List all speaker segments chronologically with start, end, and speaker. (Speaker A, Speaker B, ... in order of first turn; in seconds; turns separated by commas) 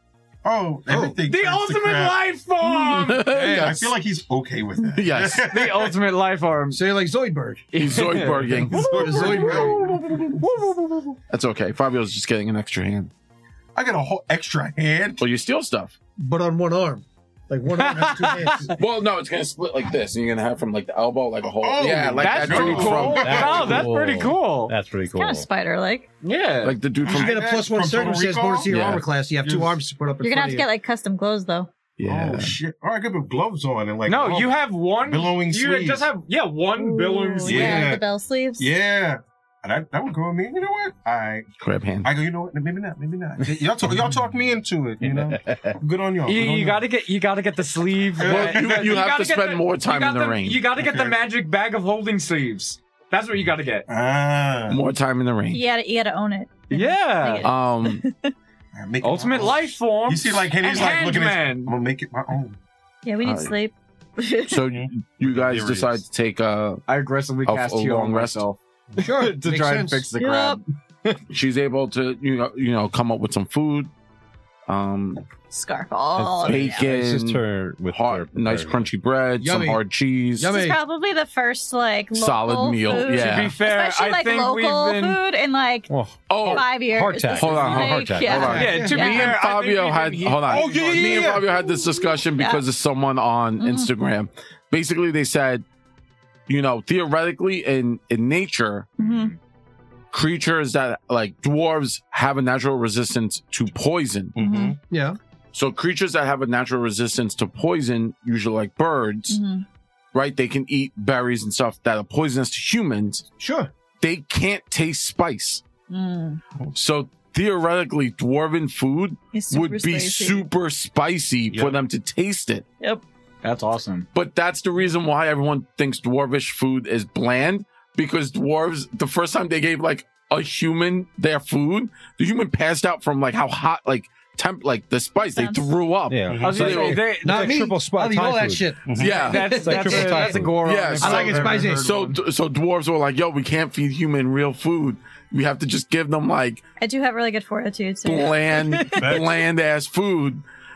Speaker A: 0.4-2.2, Speaker B: 0.9-1.1, Speaker C: 1.2-3.4, Speaker D: 2.7-3.9, Speaker B: 3.3-3.7, Speaker A: 3.5-5.9, Speaker D: 4.9-5.5, Speaker C: 5.5-6.8, Speaker B: 6.7-10.6, Speaker C: 7.7-11.1, Speaker D: 7.7-10.0, Speaker A: 8.5-10.4, Speaker D: 11.3-13.1, Speaker A: 13.7-15.2, Speaker D: 15.2-15.9, Speaker B: 16.2-18.7, Speaker C: 17.7-18.7, Speaker D: 18.7-23.8, Speaker A: 21.6-23.9, Speaker C: 22.2-24.7, Speaker E: 23.1-25.5, Speaker F: 25.1-26.1, Speaker C: 26.2-26.8, Speaker D: 26.6-27.4, Speaker A: 27.0-29.8, Speaker B: 27.1-30.7, Speaker D: 28.6-29.0, Speaker F: 30.2-31.7, Speaker D: 32.0-32.5, Speaker A: 32.0-36.1, Speaker C: 34.0-37.9, Speaker F: 36.8-38.7, Speaker A: 37.4-38.1, Speaker A: 38.6-41.5, Speaker D: 41.6-42.1, Speaker A: 42.0-46.8, Speaker E: 45.0-45.7, Speaker C: 46.2-53.9, Speaker A: 48.1-49.0, Speaker D: 48.2-50.6, Speaker A: 50.8-51.2, Speaker A: 53.9-54.8, Speaker D: 54.7-55.6, Speaker F: 55.5-58.3, Speaker C: 56.7-57.5, Speaker D: 57.4-58.0, Speaker A: 58.7-62.6, Speaker C: 59.0-61.7, Speaker F: 63.0-64.6, Speaker D: 63.2-63.5, Speaker D: 64.5-66.8, Speaker A: 64.7-66.0, Speaker C: 66.9-71.2, Speaker D: 67.4-68.4, Speaker B: 69.0-70.1, Speaker F: 70.2-70.6, Speaker D: 71.3-73.9, Speaker D: 74.7-75.2, Speaker F: 75.5-76.8, Speaker E: 76.2-78.9, Speaker D: 76.4-80.6, Speaker B: 79.4-79.8, Speaker B: 80.4-80.8, Speaker F: 80.5-85.9, Speaker D: 82.1-83.5, Speaker C: 83.1-85.2, Speaker E: 85.9-88.6, Speaker D: 86.3-86.7, Speaker F: 86.4-89.3, Speaker D: 87.3-95.6, Speaker B: 88.3-89.0, Speaker C: 88.4-91.3, Speaker A: 90.5-91.5, Speaker F: 91.6-92.6, Speaker F: 93.6-93.9, Speaker D: 96.5-98.9, Speaker F: 99.0-99.3, Speaker C: 99.0-99.3, Speaker D: 100.1-104.4, Speaker A: 104.3-104.8, Speaker F: 104.4-104.8, Speaker B: 104.9-105.2, Speaker D: 105.5-109.4, Speaker F: 109.3-109.6, Speaker D: 110.1-113.3, Speaker B: 113.4-113.7, Speaker D: 114.0-115.6, Speaker F: 115.9-116.4, Speaker D: 116.7-122.6, Speaker F: 119.3-120.5, Speaker A: 121.5-121.8, Speaker C: 123.4-124.1, Speaker D: 124.1-137.0, Speaker F: 135.3-135.7, Speaker E: 136.1-138.8, Speaker A: 136.3-136.9, Speaker C: 136.4-137.7, Speaker B: 137.2-140.4, Speaker A: 138.8-139.3, Speaker D: 139.0-139.6, Speaker C: 139.0-142.1, Speaker E: 139.5-140.6, Speaker D: 140.6-146.6, Speaker B: 141.0-141.9, Speaker A: 141.1-141.8, Speaker F: 146.8-149.1, Speaker D: 148.0-150.4, Speaker A: 148.9-149.3